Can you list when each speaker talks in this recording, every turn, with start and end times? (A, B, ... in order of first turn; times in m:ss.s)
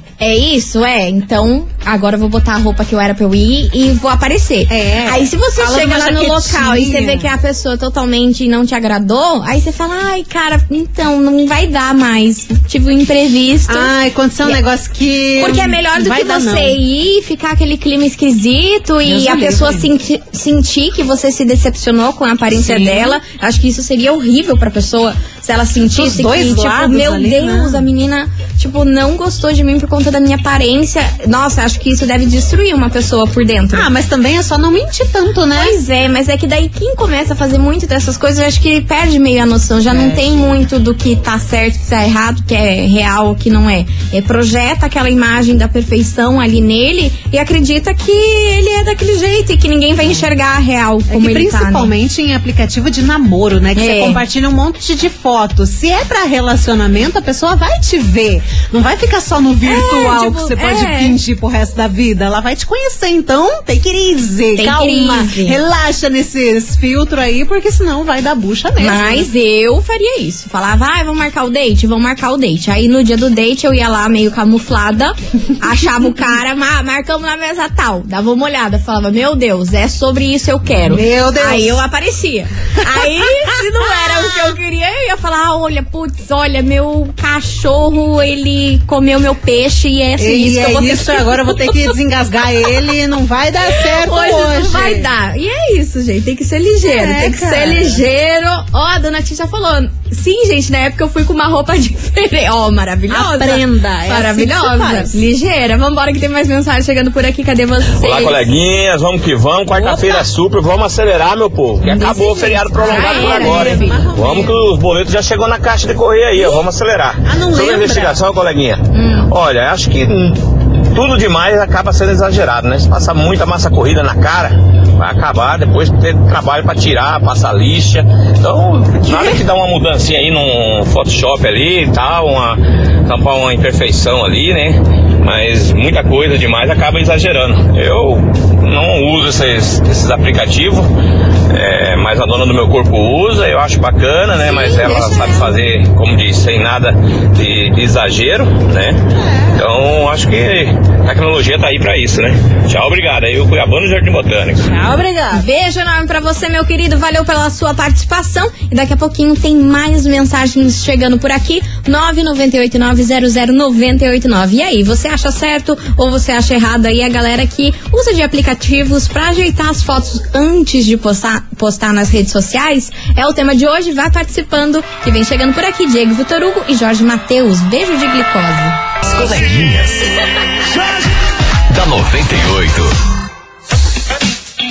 0:00.2-0:13.9 A
0:04.7-0:07.3 B
0:13.7-0:16.8 B
0:15.4-0:33.9 A
0:19.0-0:19.9 B
0:22.5-0:23.2 B
0:25.9-0:27.8 B
0:33.7-0:35.8 B
0:35.6-0:51.9 A
0:39.9-0:40.4 B
0:51.1-1:09.3 B
0:53.8-0:54.2 A
0:59.6-1:01.2 A
1:04.6-1:05.6 A
1:08.8-1:31.9 A
1:20.8-1:21.8 B
1:23.0-1:24.5 B
1:30.2-1:35.1 B
1:33.8-1:48.5 A
1:36.8-1:38.0 B
1:43.1-1:45.2 B
1:48.0-2:20.9 C
1:49.7-1:50.2 B
1:51.9-1:54.0 A
1:51.9-1:54.6 B
1:56.4-1:56.6 B
1:57.2-1:58.2 B
1:58.9-1:59.3 A
2:09.1-2:09.4 B
2:21.5-2:29.0 C
2:24.4-2:25.5 B
2:24.4-2:25.2 A
2:29.2-2:29.7 B
2:29.6-2:34.8 C
2:34.6-2:35.4 B
2:35.3-2:58.8 A
2:59.0-3:00.1 D
3:00.7-3:01.1 D
3:01.7-3:02.9 D